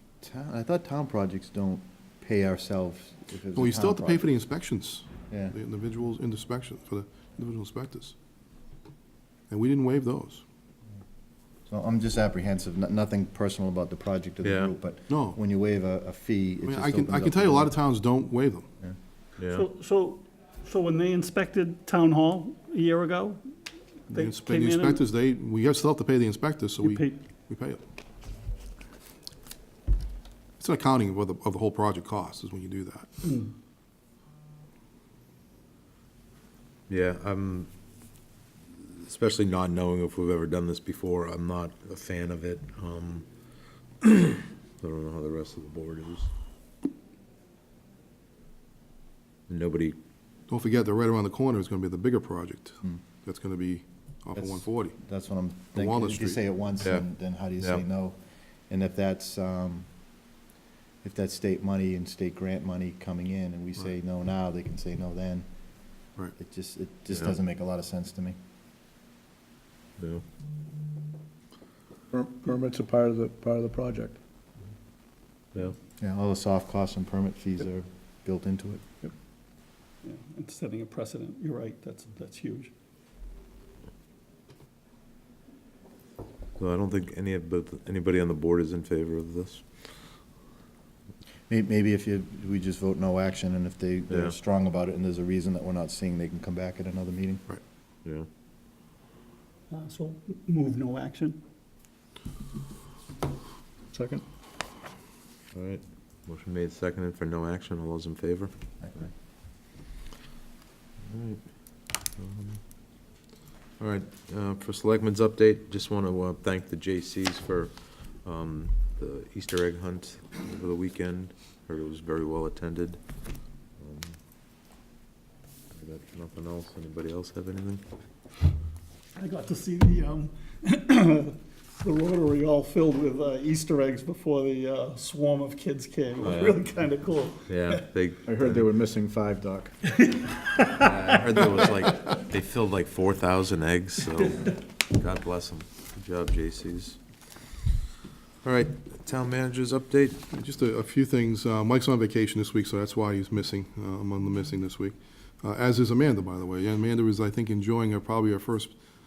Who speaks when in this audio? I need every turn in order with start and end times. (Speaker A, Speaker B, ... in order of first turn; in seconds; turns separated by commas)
Speaker A: 0.2-4.3, Speaker B: 3.5-8.1, Speaker A: 5.3-5.5, Speaker B: 9.5-10.4, Speaker A: 11.7-17.8, Speaker C: 14.4-14.7, Speaker B: 15.1-15.4, Speaker B: 16.6-18.7, Speaker C: 19.4-19.7, Speaker D: 19.4-23.4, Speaker D: 24.1-25.0, Speaker B: 24.1-27.8, Speaker D: 26.8-27.2, Speaker B: 30.6-33.2, Speaker D: 33.2-33.5, Speaker C: 36.9-37.7, Speaker C: 38.7-43.2, Speaker C: 44.0-46.3, Speaker C: 49.5-50.0, Speaker B: 50.5-55.0, Speaker A: 54.4-58.2, Speaker B: 55.7-56.4, Speaker C: 56.8-57.0, Speaker A: 58.7-59.9, Speaker A: 61.0-65.5, Speaker A: 66.4-68.3, Speaker C: 67.1-67.3, Speaker E: 72.1-74.2, Speaker A: 76.0-78.8, Speaker D: 80.0-82.7, Speaker C: 86.6-89.6, Speaker A: 91.5-97.4, Speaker C: 94.1-94.3, Speaker D: 99.7-101.4, Speaker E: 103.9-104.2, Speaker C: 105.5-109.0, Speaker A: 108.8-109.1, Speaker C: 111.0-112.6, Speaker C: 113.8-123.0, Speaker C: 123.8-124.2, Speaker C: 125.7-127.8, Speaker D: 129.2-137.8, Speaker C: 136.2-136.6, Speaker C: 137.5-138.7, Speaker E: 138.3-139.7, Speaker D: 140.0-141.7, Speaker C: 140.8-147.0, Speaker C: 148.4-150.2, Speaker B: 150.3-158.7